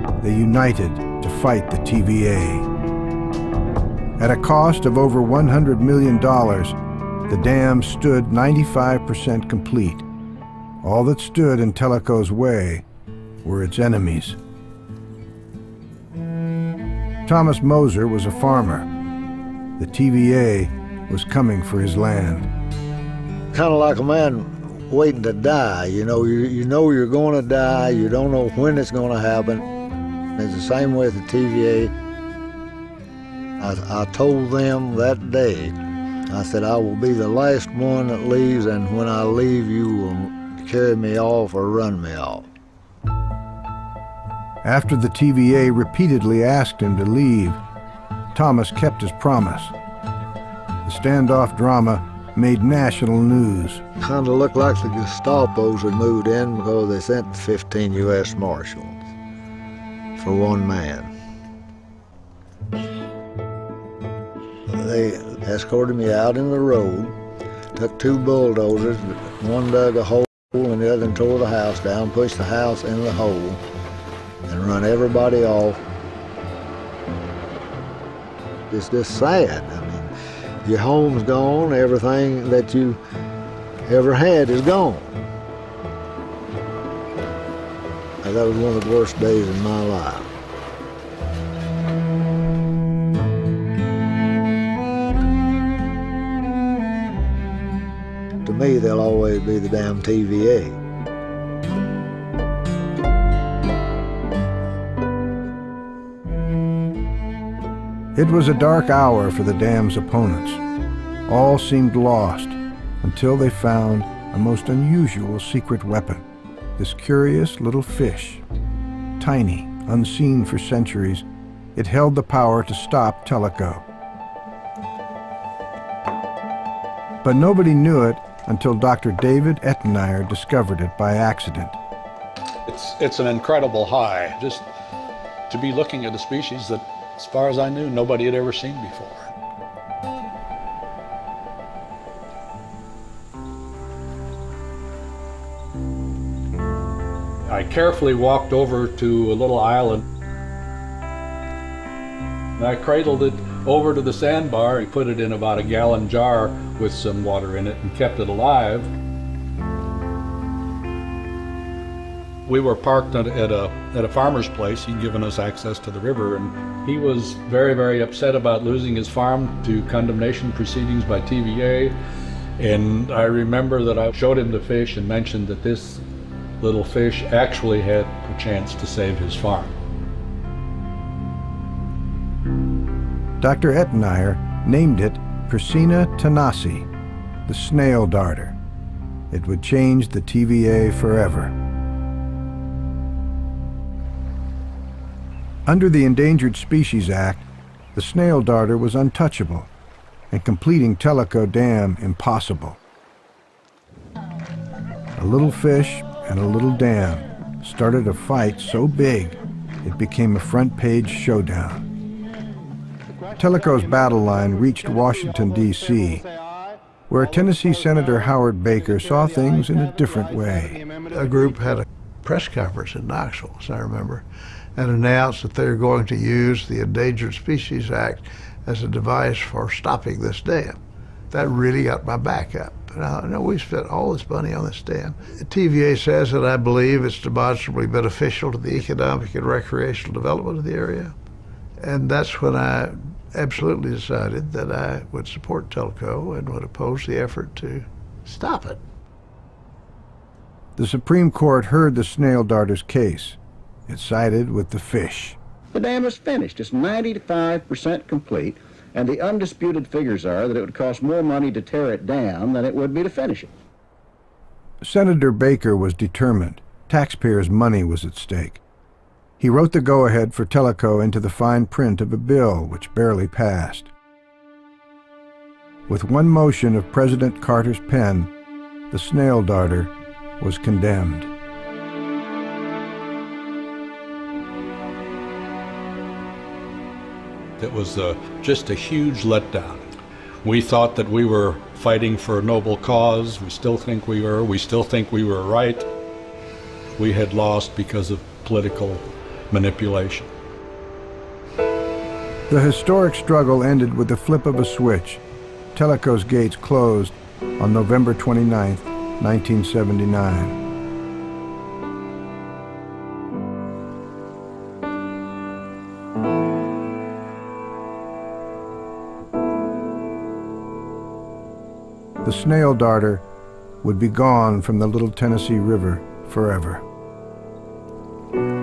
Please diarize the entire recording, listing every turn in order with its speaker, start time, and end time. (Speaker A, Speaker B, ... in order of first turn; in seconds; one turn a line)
Speaker A: 0.2-2.7
Speaker A: 4.2-6.8
Speaker A: 7.3-10.0
Speaker A: 10.8-12.8
Speaker A: 13.4-14.4
Speaker A: 17.3-18.9
Speaker A: 19.8-22.5
Speaker B: 23.5-29.6
Speaker B: 30.4-31.9
Speaker B: 33.6-35.8
Speaker B: 36.3-42.5
Speaker A: 44.6-47.6
Speaker A: 48.3-49.7
Speaker A: 50.9-53.8
Speaker B: 54.0-59.1
Speaker B: 60.2-61.1
Speaker B: 64.7-67.2
Speaker B: 67.8-73.6
Speaker B: 74.5-75.8
Speaker B: 78.7-80.1
Speaker B: 80.6-83.0
Speaker B: 83.9-85.1
Speaker B: 88.2-90.3
Speaker B: 98.4-100.8
Speaker A: 108.2-110.6
Speaker A: 111.3-116.2
Speaker A: 116.8-118.4
Speaker A: 119.2-123.8
Speaker A: 127.2-131.8
Speaker C: 132.7-134.7
Speaker C: 135.5-139.3
Speaker C: 147.5-150.0
Speaker C: 152.6-158.9
Speaker C: 162.5-172.0
Speaker C: 172.6-176.0
Speaker C: 176.6-179.7
Speaker A: 183.4-186.9
Speaker A: 187.5-188.6
Speaker A: 189.3-191.5
Speaker A: 195.7-197.4
Speaker A: 197.9-199.7
Speaker A: 200.3-202.8
Speaker A: 205.2-211.9
Speaker A: 213.4-216.2
Speaker A: 217.1-220.8
Speaker D: 221.1-230.8
Speaker D: 231.3-241.1
Speaker D: 241.8-248.8
Speaker A: 250.8-255.4
Speaker E: 255.7-263.5
Speaker A: 264.8-268.6
Speaker A: 269.4-273.9
Speaker A: 275.9-278.3
Speaker A: 278.9-281.3
Speaker C: 287.6-289.9
Speaker C: 290.4-295.9
Speaker C: 297.0-300.3
Speaker A: 302.5-305.2
Speaker A: 305.8-310.6
Speaker A: 322.2-323.2
Speaker A: 323.8-326.8